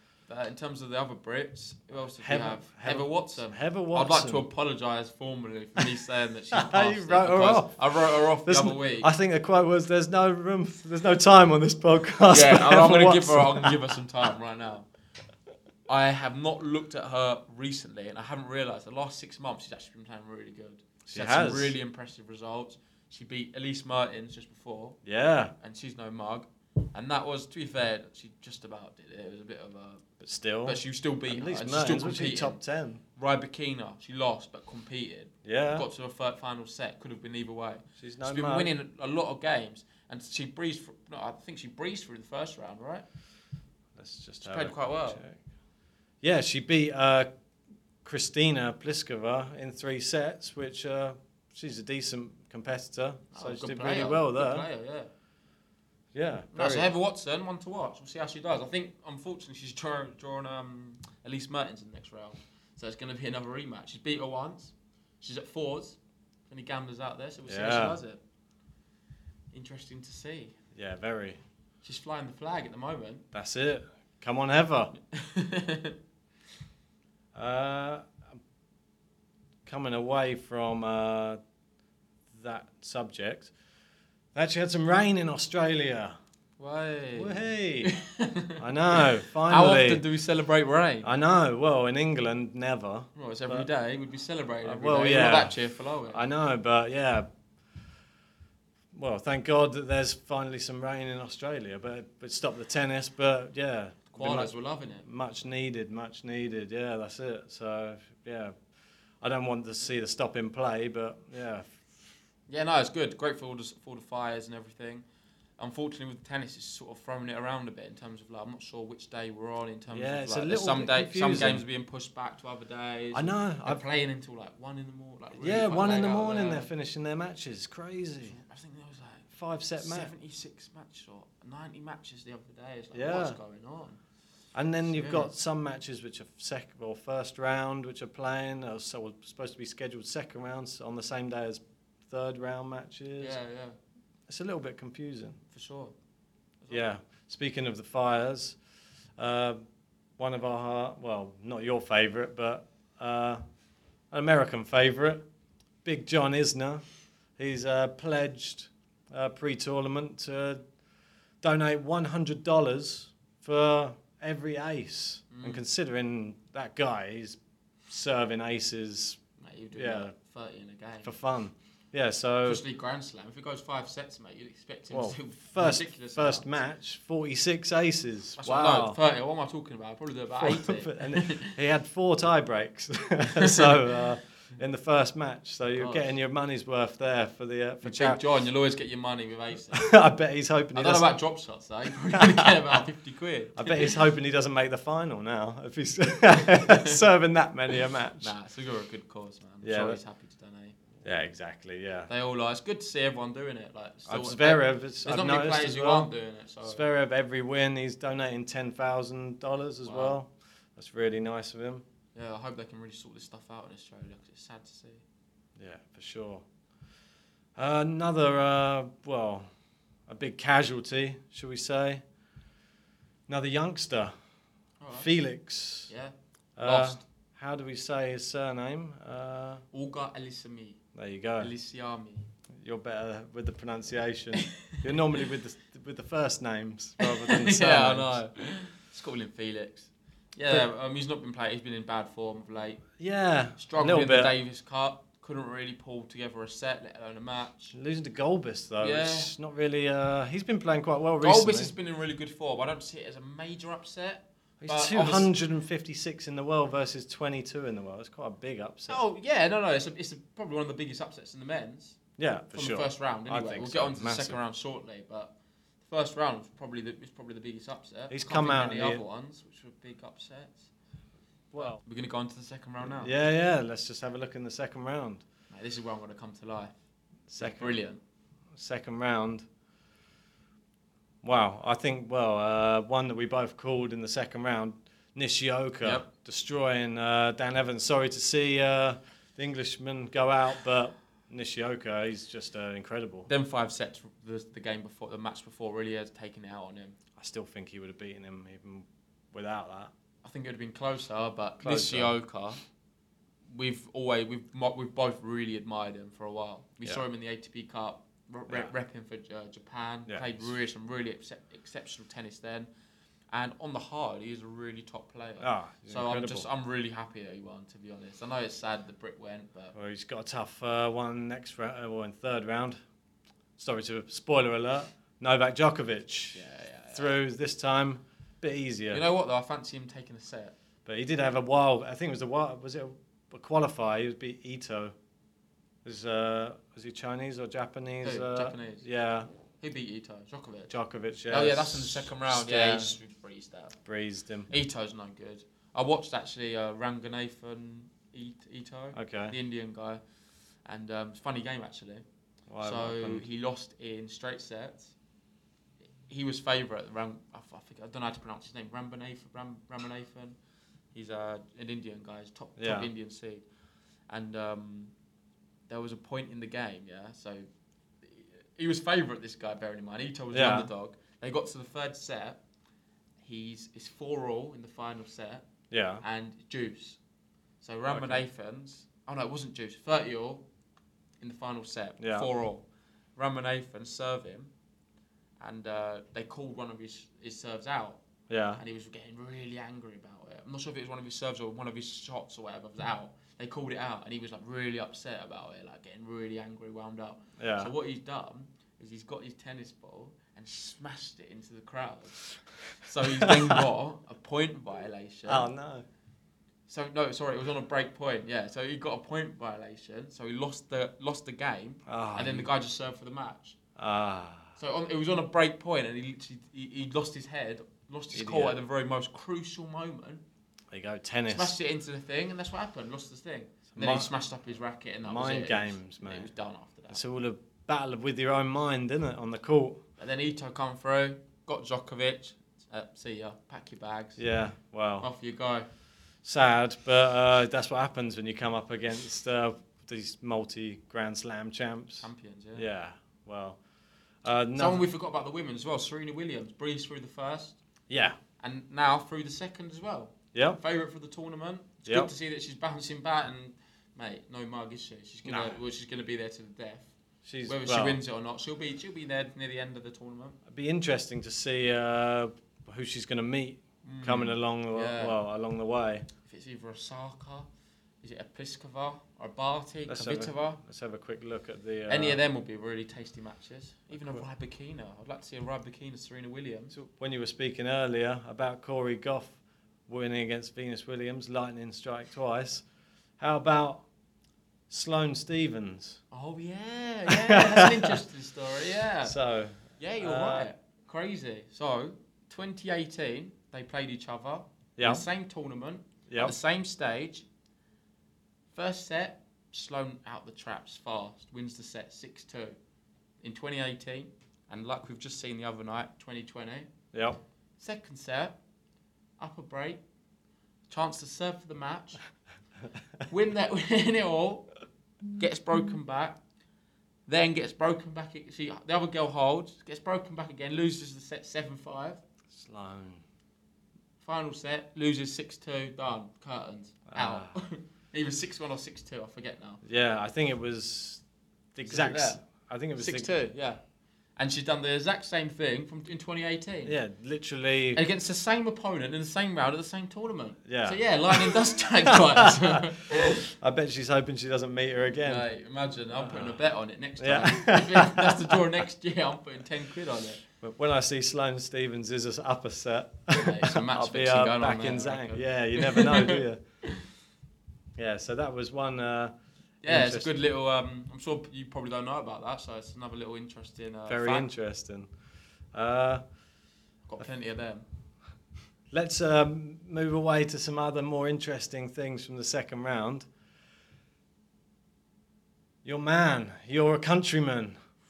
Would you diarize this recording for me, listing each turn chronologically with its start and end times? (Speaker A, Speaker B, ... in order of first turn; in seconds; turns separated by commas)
Speaker A: 0.3-9.1, Speaker B: 2.2-4.5, Speaker B: 6.5-13.8, Speaker A: 12.3-14.9, Speaker A: 15.9-25.0, Speaker B: 21.1-21.7, Speaker B: 25.1-25.5, Speaker A: 25.6-30.0, Speaker B: 30.2-33.0, Speaker A: 30.6-32.6, Speaker A: 33.2-43.0, Speaker B: 35.5-35.9, Speaker B: 38.0-38.7, Speaker B: 44.0-45.4, Speaker A: 44.4-45.2, Speaker B: 46.2-47.3, Speaker B: 48.0-54.7, Speaker A: 53.3-55.1, Speaker B: 56.1-56.9, Speaker A: 56.5-66.0, Speaker A: 66.5-68.2, Speaker B: 67.5-68.0, Speaker A: 69.5-70.6, Speaker B: 70.8-71.4, Speaker A: 71.8-73.2, Speaker B: 73.3-74.9, Speaker A: 75.0-76.0, Speaker B: 77.3-78.2, Speaker B: 79.7-81.4, Speaker B: 82.3-83.5, Speaker B: 84.3-86.2, Speaker A: 86.6-91.1, Speaker B: 87.2-87.9, Speaker B: 88.6-90.0, Speaker B: 91.0-93.7, Speaker A: 93.2-96.2, Speaker B: 94.7-95.6, Speaker B: 96.1-97.3, Speaker B: 98.9-108.5, Speaker A: 104.1-105.0, Speaker B: 109.2-111.8, Speaker A: 112.5-115.0, Speaker A: 115.6-126.7, Speaker B: 119.9-121.6, Speaker B: 123.1-123.8, Speaker B: 125.4-128.4, Speaker A: 128.2-134.0, Speaker B: 129.3-130.1, Speaker B: 132.9-133.4, Speaker B: 134.5-143.4, Speaker A: 134.9-135.3, Speaker A: 143.2-143.8, Speaker B: 144.3-145.4, Speaker A: 145.5-145.9, Speaker A: 146.6-146.9, Speaker B: 146.7-148.6, Speaker B: 149.2-149.6, Speaker B: 150.2-153.4, Speaker B: 154.1-155.2, Speaker B: 155.8-156.8, Speaker B: 157.4-160.6, Speaker B: 161.4-167.4, Speaker A: 165.3-165.6, Speaker B: 167.9-169.2, Speaker A: 169.4-171.1, Speaker B: 169.7-170.1, Speaker B: 171.0-172.6, Speaker A: 172.4-176.5, Speaker B: 174.9-179.0, Speaker A: 178.4-181.6, Speaker B: 180.4-188.2, Speaker A: 183.4-183.8, Speaker A: 185.8-186.1, Speaker A: 187.8-189.9, Speaker B: 189.7-191.1, Speaker A: 190.7-194.0, Speaker B: 192.1-192.8, Speaker B: 193.6-198.3, Speaker A: 196.4-197.0, Speaker A: 198.2-200.8, Speaker B: 199.6-200.0, Speaker B: 201.0-202.1, Speaker A: 202.1-206.8, Speaker B: 204.1-206.1, Speaker B: 206.6-211.8, Speaker A: 209.8-210.2, Speaker A: 212.2-215.0, Speaker B: 215.6-216.4, Speaker B: 217.6-219.5, Speaker B: 220.1-222.0, Speaker B: 223.3-224.2, Speaker A: 224.8-225.1, Speaker B: 224.9-225.9, Speaker A: 225.9-227.0, Speaker B: 226.6-229.6, Speaker A: 229.7-230.8, Speaker B: 230.9-231.5, Speaker A: 231.4-232.3, Speaker B: 232.6-238.2, Speaker A: 237.0-242.8, Speaker B: 243.0-244.3, Speaker A: 243.6-247.7, Speaker B: 247.7-251.7, Speaker A: 248.8-249.3, Speaker A: 251.2-255.3, Speaker B: 254.6-259.0, Speaker A: 258.9-262.0, Speaker B: 262.2-264.4, Speaker A: 262.5-270.7, Speaker B: 268.1-269.0, Speaker B: 271.5-271.8, Speaker A: 271.6-273.1, Speaker B: 273.0-275.2, Speaker A: 275.5-276.7, Speaker B: 277.3-277.8, Speaker A: 277.4-278.0, Speaker B: 278.6-279.4, Speaker B: 281.2-293.3, Speaker A: 293.3-297.0, Speaker B: 297.2-299.9, Speaker A: 300.2-302.6, Speaker B: 301.6-302.1, Speaker A: 303.5-312.7, Speaker B: 310.1-310.5, Speaker A: 313.3-319.7, Speaker B: 315.4-316.5, Speaker B: 319.8-322.8, Speaker B: 323.6-329.0, Speaker A: 326.3-327.2, Speaker A: 328.9-330.6, Speaker B: 330.9-334.9, Speaker B: 335.9-339.3, Speaker A: 338.0-338.9, Speaker A: 339.6-340.7, Speaker B: 340.7-342.9, Speaker A: 341.3-343.8, Speaker B: 343.9-344.5, Speaker A: 344.5-350.0, Speaker B: 348.9-349.4, Speaker A: 350.6-352.0, Speaker B: 352.5-353.3, Speaker A: 352.6-354.9, Speaker A: 356.1-360.4, Speaker A: 360.9-363.4, Speaker B: 362.6-362.9, Speaker A: 364.1-364.9, Speaker A: 365.7-367.5, Speaker A: 368.0-372.4, Speaker B: 370.3-370.7, Speaker A: 373.2-375.4, Speaker B: 375.7-376.0, Speaker A: 376.0-377.0, Speaker A: 377.6-380.4, Speaker B: 377.9-378.2, Speaker A: 381.2-382.6, Speaker B: 382.0-382.3, Speaker A: 383.2-384.5, Speaker A: 385.4-388.0, Speaker B: 388.3-388.6, Speaker A: 388.6-402.2, Speaker B: 397.4-397.7, Speaker A: 402.9-405.5, Speaker B: 403.1-403.6, Speaker B: 405.3-405.9, Speaker A: 406.7-413.6, Speaker B: 411.9-412.5, Speaker B: 413.8-414.5, Speaker A: 414.6-420.2, Speaker B: 418.1-418.6, Speaker B: 420.7-421.6, Speaker A: 421.3-427.0, Speaker B: 423.7-424.1, Speaker B: 425.1-426.3, Speaker B: 426.9-429.8, Speaker A: 430.0-434.2, Speaker B: 434.2-435.1, Speaker A: 435.0-435.7, Speaker B: 436.2-443.6, Speaker A: 442.0-442.7, Speaker B: 444.2-444.9, Speaker A: 444.6-447.6, Speaker B: 447.9-448.2, Speaker A: 448.4-456.9, Speaker B: 450.3-450.6, Speaker B: 451.9-452.1, Speaker B: 455.2-455.6, Speaker B: 457.2-458.0, Speaker A: 457.4-460.4, Speaker B: 460.5-466.1, Speaker A: 463.8-465.2, Speaker A: 466.2-467.5, Speaker A: 468.0-470.6, Speaker B: 469.9-472.2, Speaker A: 471.9-476.7, Speaker B: 473.9-474.2, Speaker B: 476.7-479.4, Speaker B: 479.9-482.6, Speaker B: 483.2-483.9, Speaker B: 484.7-486.0, Speaker A: 486.1-489.2, Speaker B: 487.1-488.0, Speaker B: 489.0-490.5, Speaker A: 489.8-497.3, Speaker B: 494.8-495.1, Speaker B: 496.1-496.4, Speaker A: 498.5-502.6, Speaker A: 503.2-506.7, Speaker B: 506.9-507.2, Speaker A: 507.6-508.4, Speaker A: 509.2-509.8, Speaker A: 510.7-512.0, Speaker A: 513.1-514.5, Speaker A: 515.2-516.2, Speaker A: 517.1-522.0, Speaker B: 522.3-523.0, Speaker A: 524.0-529.6, Speaker B: 526.9-527.3, Speaker B: 529.6-531.0, Speaker B: 531.5-533.1, Speaker A: 531.7-532.2, Speaker A: 532.8-533.6, Speaker A: 534.2-536.8, Speaker B: 536.7-537.8, Speaker A: 537.7-543.3, Speaker B: 540.5-542.6, Speaker B: 543.1-545.3, Speaker A: 545.0-550.2, Speaker B: 545.9-546.4, Speaker B: 547.0-548.4, Speaker B: 550.4-556.4, Speaker A: 553.1-556.8, Speaker B: 557.8-559.1, Speaker A: 559.6-564.3, Speaker B: 559.6-560.1, Speaker B: 563.9-564.9, Speaker B: 565.5-566.0, Speaker A: 566.9-567.7, Speaker B: 568.7-573.1, Speaker B: 575.6-577.6